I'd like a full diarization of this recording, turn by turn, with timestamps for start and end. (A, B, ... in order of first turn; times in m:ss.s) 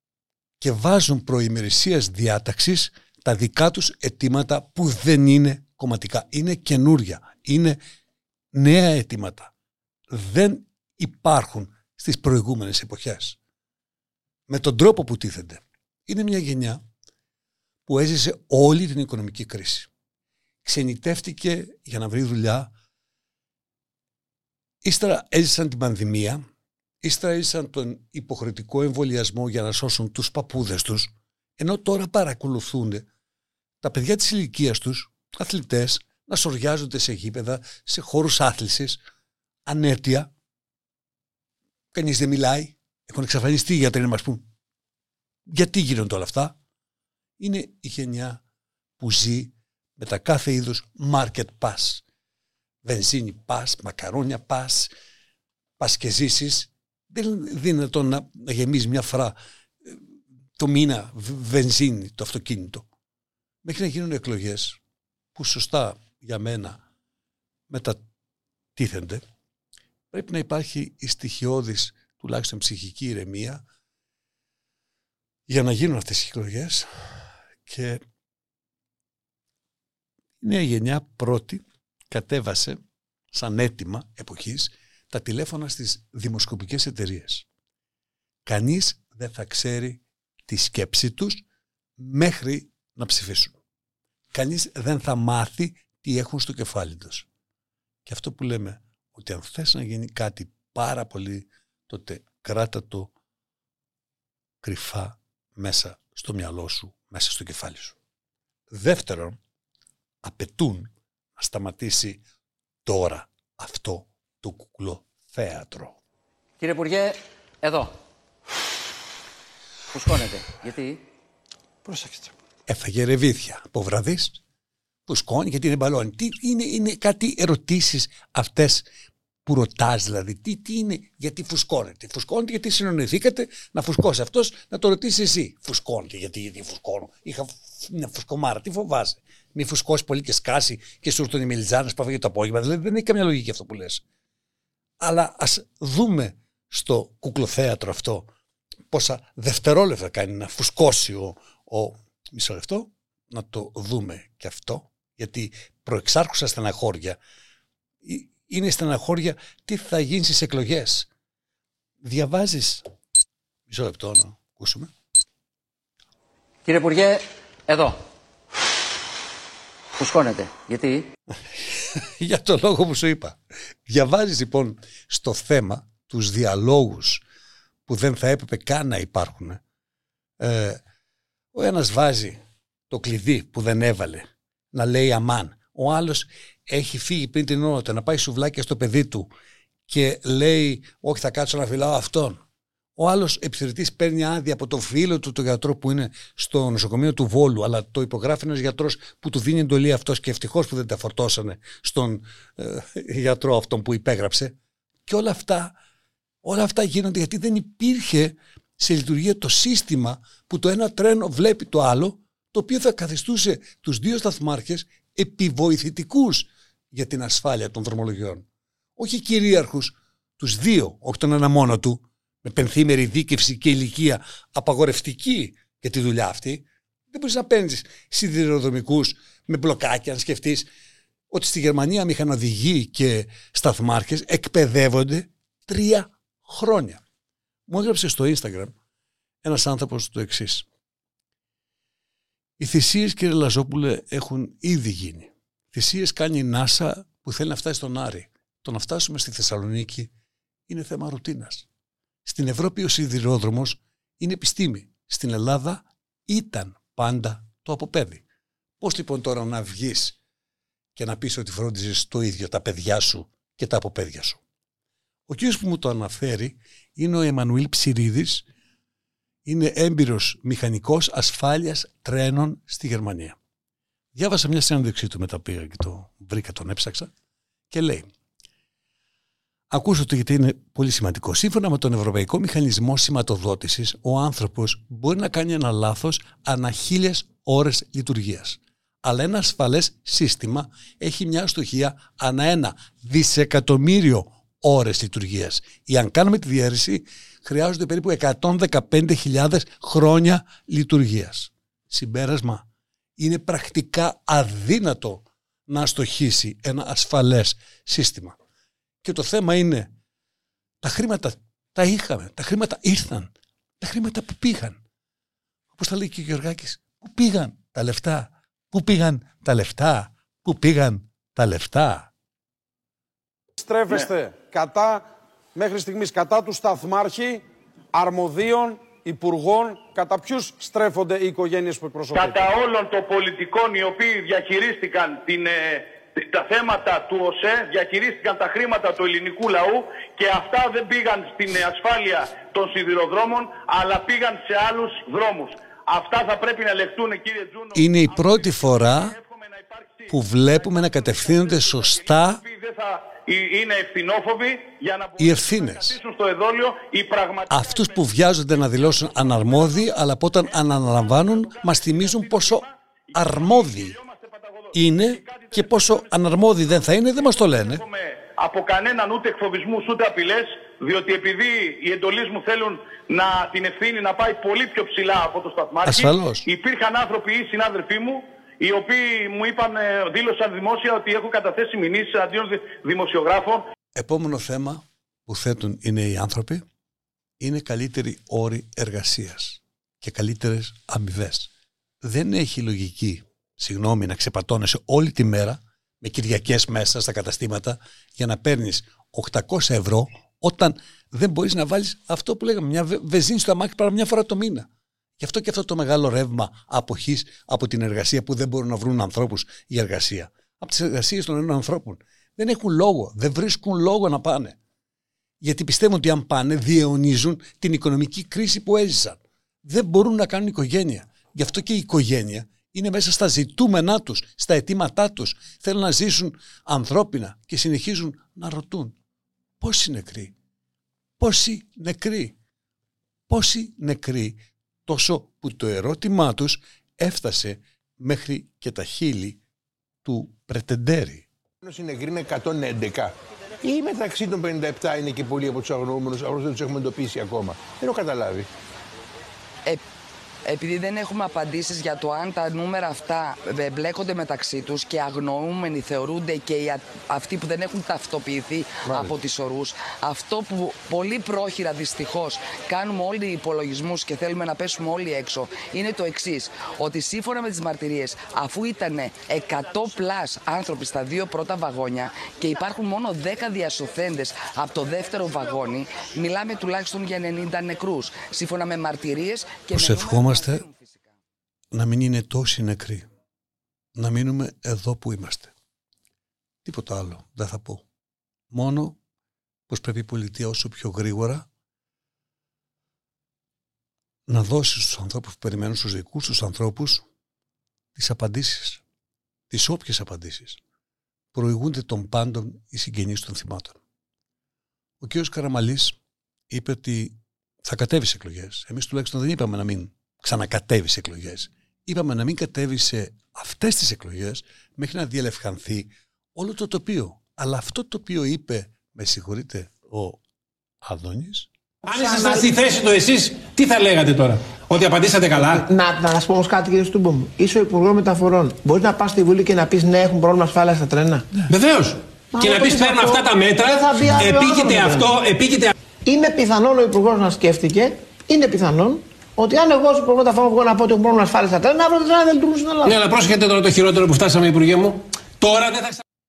0:00.6-0:07.8 A
0:08.5-0:09.5 A
0:10.1-0:13.4 A
0:14.5-0:16.8 A
0:17.9-0:19.9 A
0:20.6-0:22.7 A
0:24.8-0:26.4 A
0:27.0-0:33.1 A
0:33.8-0:39.0 A
0:39.7-0:40.3 A
0:41.9-0:44.5 A
0:45.5-0:46.6 A
0:47.4-0:48.4 A
0:49.0-0:52.0 A
0:52.8-0:54.9 A
0:55.8-1:00.0 A
1:00.6-1:02.9 A
1:03.6-1:04.8 A
1:05.4-1:06.8 A
1:07.7-1:08.0 A
1:08.8-1:09.2 A
1:10.1-1:13.6 A
1:15.5-1:16.9 A
1:17.7-1:18.0 A
1:20.4-1:22.8 A
1:23.3-1:27.5 A
1:28.5-1:31.4 A
1:32.0-1:33.6 A
1:34.3-1:37.3 A
1:38.0-1:43.1 A
1:44.6-1:48.0 A
1:48.7-1:49.4 A
1:50.2-1:52.2 A
1:52.8-1:56.0 A
1:56.6-1:57.9 B
1:59.9-2:01.0 B
2:02.7-2:04.4 A
2:05.1-2:08.9 A
2:09.5-2:24.0 A
2:25.0-2:28.3 A
2:28.9-2:37.2 A
2:38.0-2:41.1 A
2:42.0-2:42.8 A
2:43.7-2:44.9 A
2:46.7-2:48.0 B
2:50.0-2:51.0 B
2:51.6-2:57.2 A
2:57.9-2:59.6 A
3:00.4-3:00.8 A
3:01.5-3:09.3 A
3:09.9-3:12.4 A
3:13.0-3:24.6 A
3:25.1-3:25.8 A
3:26.4-3:38.5 A
3:39.0-3:50.7 A
3:51.3-3:57.0 A
3:57.7-3:58.8 A
3:59.4-4:00.7 A
4:02.6-4:10.1 A
4:10.7-4:11.7 A
4:12.3-4:18.2 A
4:18.8-4:20.2 A
4:21.0-4:24.4 A
4:25.3-4:28.5 A
4:29.5-4:33.4 A
4:34.2-4:37.1 A
4:37.7-4:38.1 A
4:39.7-5:08.4 A
5:09.0-5:09.9 A
5:10.8-5:14.8 A
5:15.7-5:22.1 A
5:23.6-5:25.0 C
5:25.6-5:27.4 C
5:27.9-5:32.6 C
5:32.6-5:50.0 D
5:47.7-5:49.2 A
5:50.1-5:52.4 A
5:50.6-5:58.0 D
5:55.2-5:56.0 A
5:57.5-6:04.0 A
5:58.8-5:59.8 D
6:01.2-6:02.7 D
6:03.4-6:04.6 D
6:04.7-6:07.8 A
6:05.2-6:06.1 D
6:07.3-6:23.6 D
6:15.8-6:16.5 A
6:24.0-6:26.6 A
6:27.4-6:31.5 A
6:32.0-6:44.7 A
6:45.2-6:54.6 A
6:55.4-7:09.0 A
7:09.6-7:10.3 A
7:11.2-7:12.4 A
7:13.3-7:19.4 A
7:20.0-7:21.3 A
7:21.6-7:28.5 E
7:30.4-8:01.1 F
7:59.7-8:00.6 A
8:01.7-8:03.0 A
8:04.0-8:05.5 A
8:06.6-8:07.8 A
8:08.5-8:09.0 A
8:09.7-8:11.5 A
8:14.3-8:17.0 A
8:18.0-8:18.8 A
8:19.5-8:20.6 A
8:21.3-8:23.8 A
8:25.0-8:26.0 A
8:26.5-8:40.2 A
8:40.8-8:41.5 A
8:41.8-8:45.7 G
8:42.0-8:42.5 H
8:45.5-8:51.3 H
8:51.5-8:55.7 G
8:52.3-8:55.1 H
8:56.1-9:03.0 H
9:02.8-9:06.0 G